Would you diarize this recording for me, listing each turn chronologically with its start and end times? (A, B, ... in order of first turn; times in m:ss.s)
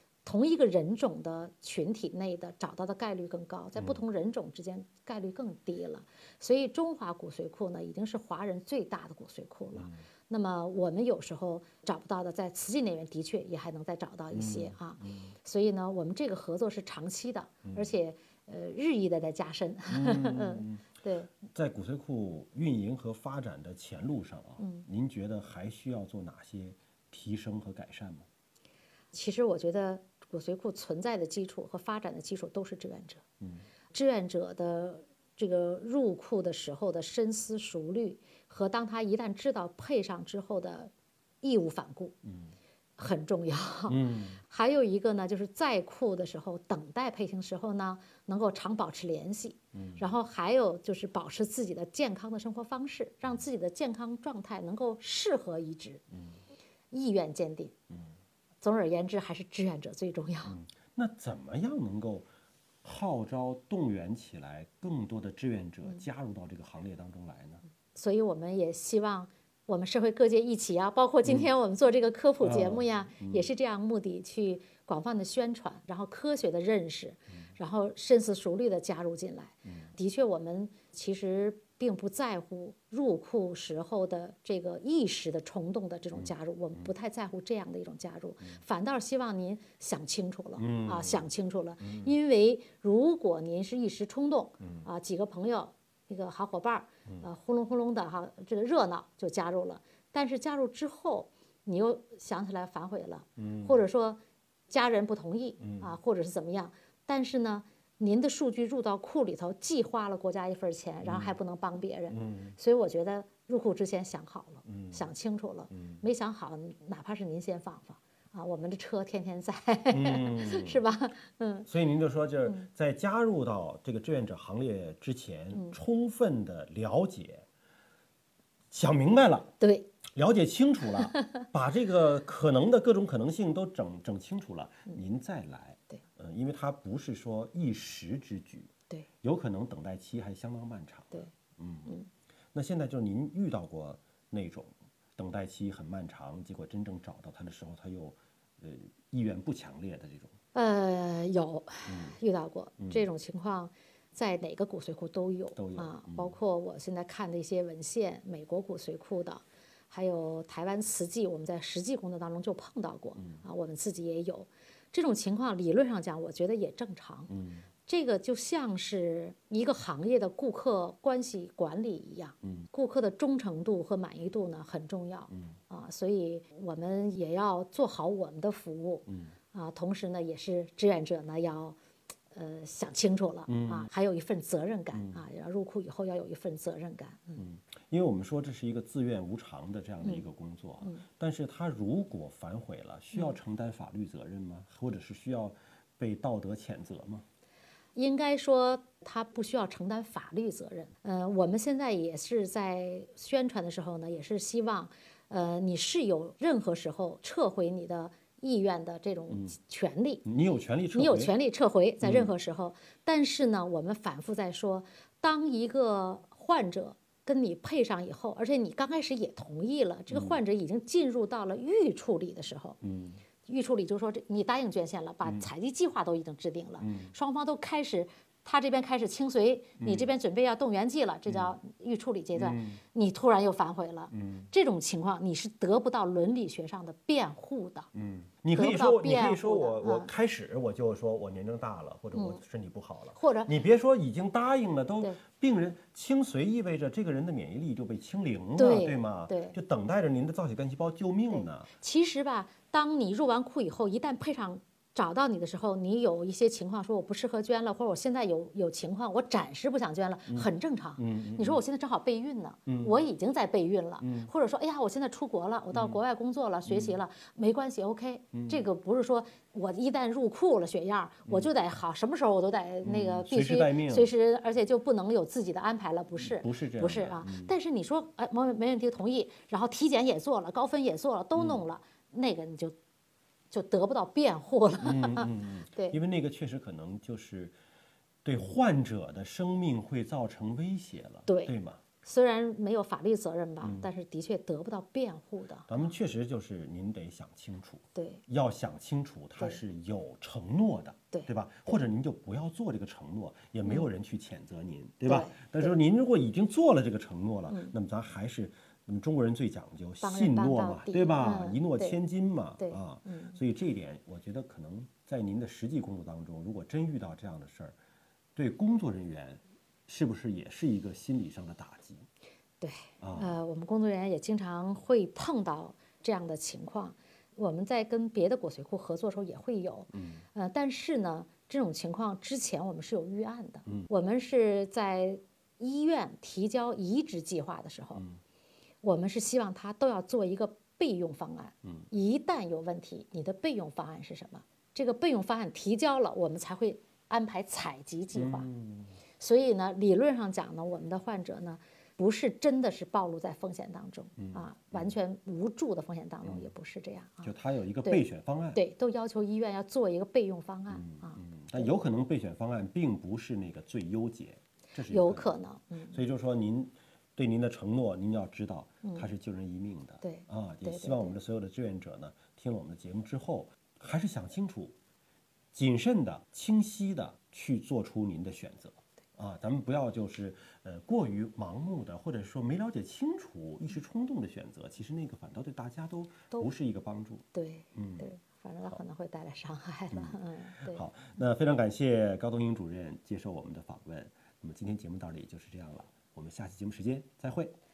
0:00.2-0:21.3 A
0:09.8-0:10.0 B
0:14.3-0:15.3 B
0:17.6-0:17.9 B
0:19.9-0:20.8 B
0:21.5-0:28.2 B
0:24.6-0:24.9 A
0:29.1-0:33.2 A
0:33.9-0:42.2 A
0:42.2-0:42.5 B
0:43.0-0:56.0 A
0:43.9-0:44.4 B
0:49.7-0:50.1 B
0:56.9-0:57.8 A
0:58.6-1:00.6 A
1:00.4-1:02.3 B
1:02.8-1:07.6 B
1:07.9-2:01.7 A
1:12.4-1:13.5 B
1:26.2-1:26.9 B
1:30.6-1:31.3 B
1:31.8-1:32.1 B
1:34.6-1:34.9 B
1:43.4-1:43.8 B
1:45.6-1:45.9 B
1:51.0-1:51.4 B
1:52.1-1:52.6 B
1:54.7-1:55.1 B
1:55.7-1:56.0 B
1:59.9-2:00.8 B
2:01.7-2:07.4 B
2:08.7-2:09.5 B
2:09.6-2:09.9 A
2:10.2-2:18.7 B
2:19.2-2:22.0 B
2:22.5-2:30.3 B
2:30.5-2:47.3 A
2:31.9-2:32.2 B
2:32.8-2:33.0 B
2:35.6-2:36.4 B
2:43.2-2:43.4 B
2:47.3-2:47.7 B
2:47.9-3:01.8 A
2:52.4-2:52.7 B
2:59.1-2:59.3 B
3:02.3-3:07.4 A
3:03.5-3:03.9 B
3:04.9-3:05.2 B
3:07.4-3:17.2 B
3:18.0-3:30.2 A
3:29.3-3:29.6 B
3:30.2-3:31.3 B
3:30.9-3:42.8 A
3:32.0-3:32.3 B
3:40.1-3:40.4 B
3:42.8-3:43.2 B
3:43.4-3:57.9 A
3:46.8-3:47.1 B
3:49.8-3:50.1 B
3:51.3-3:51.5 B
3:52.4-3:52.8 B
3:54.1-3:54.5 B
3:58.0-4:11.7 B
3:58.6-4:00.1 A
4:02.1-4:02.4 A
4:03.2-4:03.5 A
4:08.6-4:09.6 A
4:11.4-4:42.8 A
4:20.3-4:21.6 B
4:22.7-4:23.0 B
4:24.0-4:24.3 B
4:25.7-4:26.0 B
4:26.7-4:27.0 B
4:28.3-4:28.6 B
4:31.3-4:31.5 B
4:32.8-4:34.1 B
4:36.2-4:37.5 B
4:43.5-4:46.0 A
4:44.8-4:47.6 B
4:48.2-4:51.8 B
4:51.3-4:55.8 A
4:53.6-4:53.9 B
4:55.7-5:17.8 B
4:58.0-4:58.2 A
5:05.1-5:05.8 A
5:07.5-5:07.8 A
5:10.0-5:12.0 A
5:12.6-5:13.4 A
5:18.4-5:22.0 B
5:22.6-5:38.0 A
5:23.0-5:23.4 B
5:29.9-5:30.2 B
5:38.8-5:48.5 A
5:48.2-5:49.0 B
5:49.2-5:57.3 A
5:54.2-5:54.9 B
5:57.2-5:58.6 B
5:57.8-6:01.8 A
6:00.7-6:05.4 B
6:04.9-6:06.0 A
6:05.9-6:14.8 B
6:10.0-6:11.2 A
6:15.5-6:28.1 B
6:27.3-6:30.8 A
6:29.9-6:37.5 B